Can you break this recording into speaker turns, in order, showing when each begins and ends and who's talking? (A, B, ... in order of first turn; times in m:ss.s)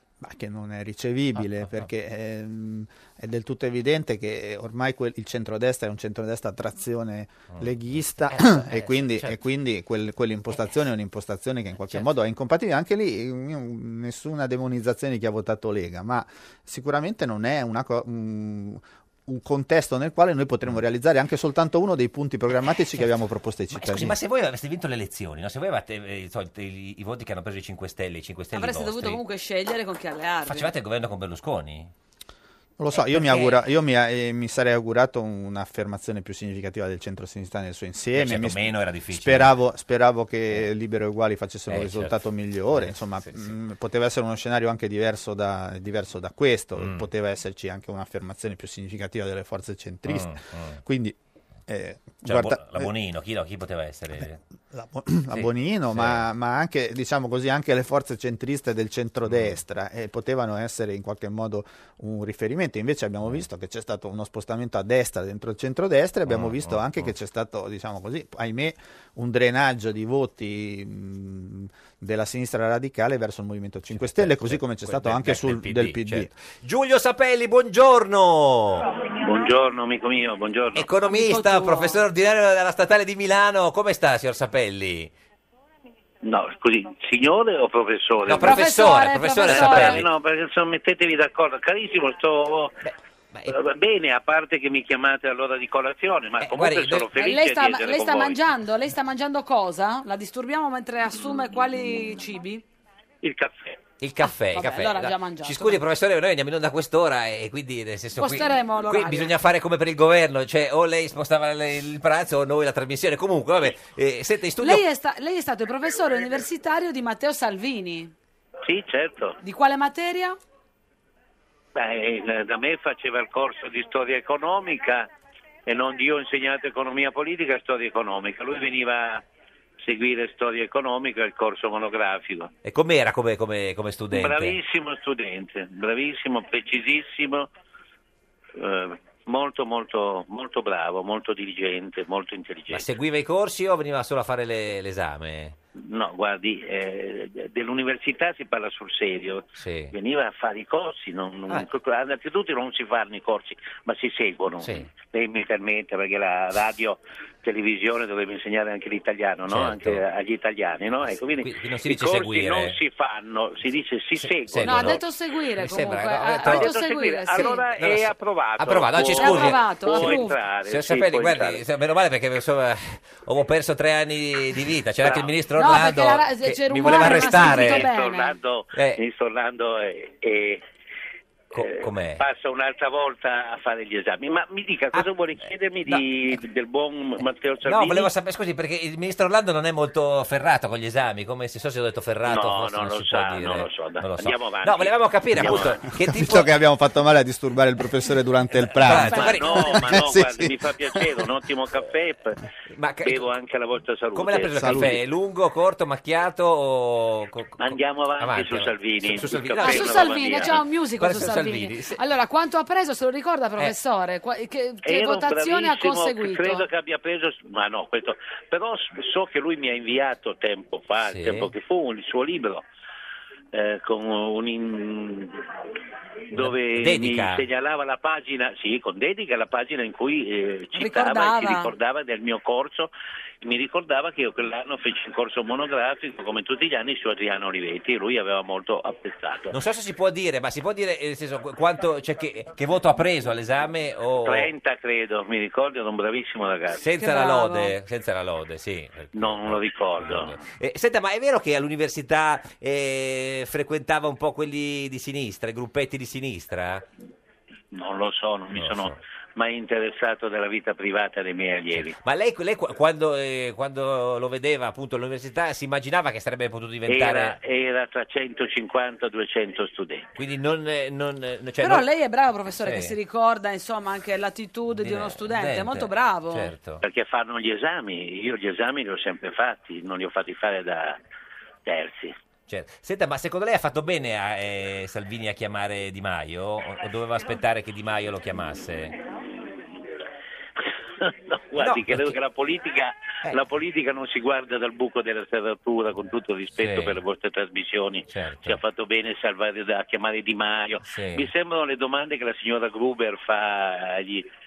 0:00.2-0:24.2 A
0:08.3-0:09.4 B
0:23.7-0:29.2 B
0:28.5-0:30.7 C
0:30.4-0:31.9 B
0:32.8-0:52.9 A
0:33.1-0:33.6 B
0:38.1-0:39.5 B
0:41.7-0:42.2 B
0:42.7-0:43.5 B
0:46.8-0:47.0 B
0:50.1-0:50.8 B
0:52.2-0:54.4 B
0:54.2-1:16.3 A
0:55.3-0:56.3 B
0:59.3-0:59.6 B
1:06.3-1:07.1 B
1:13.9-1:18.9 B
1:19.0-1:20.9 D
1:20.7-1:25.1 B
1:21.1-1:22.0 C
1:26.2-1:28.6 D
1:28.3-1:30.1 B
1:28.3-1:30.0 C
1:29.5-1:32.8 D
1:32.8-1:33.5 B
1:33.5-1:38.4 D
1:36.4-1:37.1 B
1:37.1-1:42.6 C
1:43.2-1:43.9 D
1:44.0-1:54.8 B
1:44.2-1:45.8 C
1:48.2-1:49.3 C
1:54.6-1:58.1 C
1:58.6-1:59.4 D
1:59.4-2:00.4 C
2:01.7-2:05.1 D
2:05.6-2:09.2 D
2:09.8-2:12.5 D
2:12.6-2:14.6 B
2:14.1-2:17.5 D
2:18.6-2:22.9 D
2:22.7-2:25.6 B
2:25.7-2:45.0 D
2:29.6-2:29.9 B
2:34.6-2:34.9 B
2:39.5-2:40.0 B
2:41.4-2:42.8 B
2:44.2-2:45.0 B
2:44.6-2:47.6 C
2:45.6-2:46.7 B
2:46.4-2:51.6 D
2:47.3-2:57.9 B
2:49.2-2:50.4 C
2:55.0-2:55.3 D
2:55.6-2:58.4 C
2:56.9-3:00.6 D
2:58.7-2:59.0 B
3:01.5-3:02.2 B
3:01.5-3:08.1 D
3:07.6-3:16.5 B
3:12.2-3:15.8 D
3:15.9-3:20.6 A
3:18.7-3:20.0 B
3:19.1-3:22.4 D
3:22.7-3:23.3 B
3:23.0-3:24.7 D
3:24.1-3:32.0 B
3:24.6-3:25.0 A
3:27.6-3:30.6 D
3:29.6-3:36.7 C
3:34.8-3:42.6 D
3:41.0-3:41.5 B
3:43.5-3:45.4 D
3:46.3-3:47.5 B
3:46.3-3:52.9 D
3:50.7-3:51.7 C
3:53.4-3:59.5 D
3:59.5-4:04.5 B
4:04.2-4:06.8 D
4:06.7-4:16.8 B
4:07.0-4:07.7 C
4:09.1-4:10.4 D
4:17.7-4:22.0 D
4:18.5-4:19.0 B
4:21.7-4:27.4 B
4:26.9-4:30.1 D
4:30.2-4:31.9 B
4:31.6-4:36.5 C
4:32.6-4:32.9 B
4:34.7-4:36.8 B
4:36.8-4:41.0 D
4:41.6-4:42.2 D
4:42.5-4:49.0 B
4:49.0-4:49.7 D
4:51.0-5:04.2 D
4:51.6-4:52.2 B
4:56.6-4:57.0 B
4:58.1-4:58.6 B
5:00.8-5:01.3 B